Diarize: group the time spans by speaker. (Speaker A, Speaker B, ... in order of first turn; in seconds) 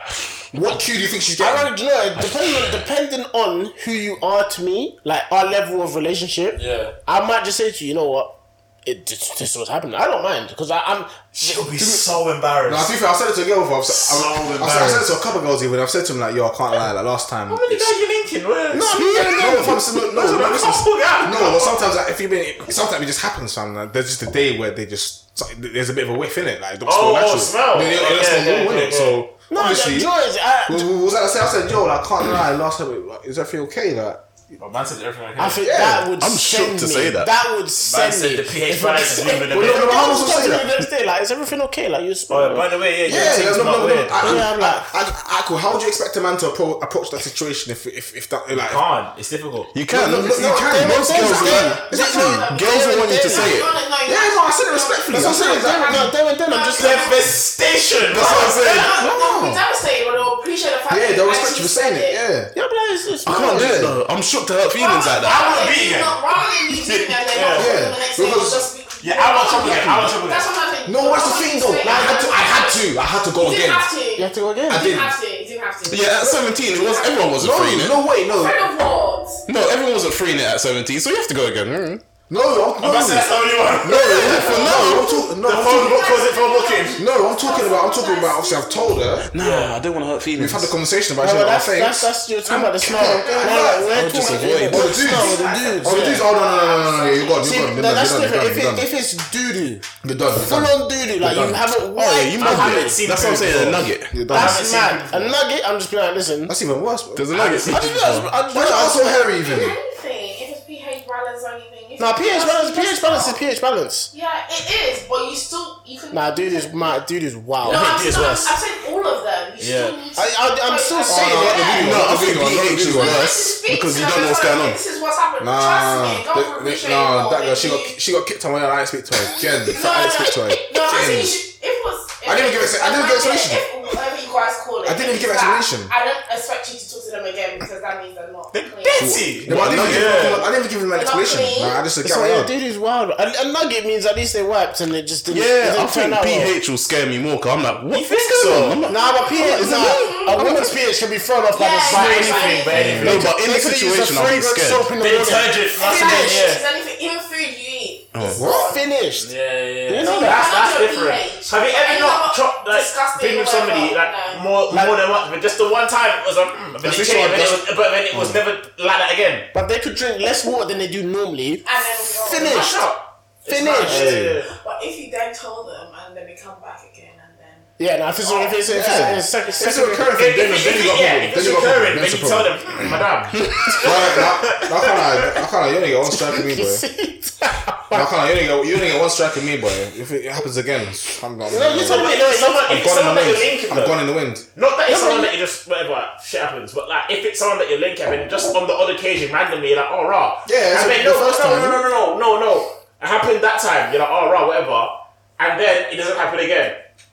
Speaker A: 0.5-1.7, 12.7-17.9, 19.1-30.1, 30.7-34.2, 35.6-36.1, 39.5-40.7, 43.0-48.8, 49.9-52.5, 54.0-56.1, 58.3-59.6, 60.9-62.5, 63.5-64.0, 67.5-68.7, 70.8-73.9, 74.7-75.1, 77.4-78.7, 82.3-83.3, 83.8-86.1, 87.0-89.3, 90.3-92.1, 92.8-94.1, 94.6-98.9, 100.0-101.7, 104.1-104.6, 106.5-107.3, 108.5-109.8, 121.0-123.3, 125.4-131.4, 132.2-133.6, 134.8-135.9, 139.4-142.5, 152.7-153.2, 158.3-158.7, 166.8-168.4, 173.8-174.4, 178.7-183.0, 183.8-186.8, 187.9-194.4, 200.4-201.8
Speaker B: 1.4-12.0, 18.7-20.0, 29.5-30.9, 35.4-42.7, 44.1-44.9, 50.1-53.5, 55.1-57.1, 62.5-63.9, 71.8-72.3, 74.2-75.0, 91.2-96.3, 97.4-99.8, 100.3-103.0, 104.3-106.5, 107.5-109.3, 112.0-114.1, 116.1-118.2, 120.2-122.6, 142.0-146.5, 148.9-156.5, 158.4-159.3, 159.9-160.5, 169.5-172.8, 173.5-174.1, 177.8-180.1, 186.1-188.1, 191.5-192.7, 194.9-195.3
Speaker C: 6.5-6.9, 11.4-12.9, 13.9-15.1, 17.5-19.1, 20.0-21.9, 26.8-29.2, 34.6-35.6, 37.8-40.2, 42.3-44.2, 48.5-49.7, 56.7-58.6, 65.2-66.2, 67.3-67.7, 69.0-70.5, 82.8-84.8, 85.4-87.0, 89.4-89.8, 95.0-95.9, 102.4-105.4, 107.3-107.8, 117.6-118.5, 119.6-120.0, 138.5-140.4, 147.9-148.9, 151.9-153.3, 155.0-156.6, 159.2-169.5, 172.4-174.5, 178.2-178.6, 180.1-185.4, 191.8-194.0, 194.5-206.8
Speaker D: 18.9-19.8, 36.2-37.3, 49.7-53.7, 58.1-59.1, 63.2-65.7, 66.8-67.2, 75.8-78.0, 79.5-82.0, 83.8-85.1, 89.3-90.7, 93.9-95.1, 101.9-104.1, 107.1-108.3, 121.8-124.8, 139.0-140.3, 145.3-150.7, 152.9-154.9, 158.1-158.4
Speaker E: 51.2-57.3, 58.1-62.2, 64.7-77.5, 78.1-79.5, 83.9-89.2, 93.4-93.8, 95.3-97.5, 109.2-113.4, 114.1-116.8, 117.6-122.3, 122.8-128.0, 129.7-139.2, 140.9-141.8, 148.9-150.3, 151.5-153.1, 155.7-158.8, 160.0-164.6, 171.6-172.9, 173.9-177.7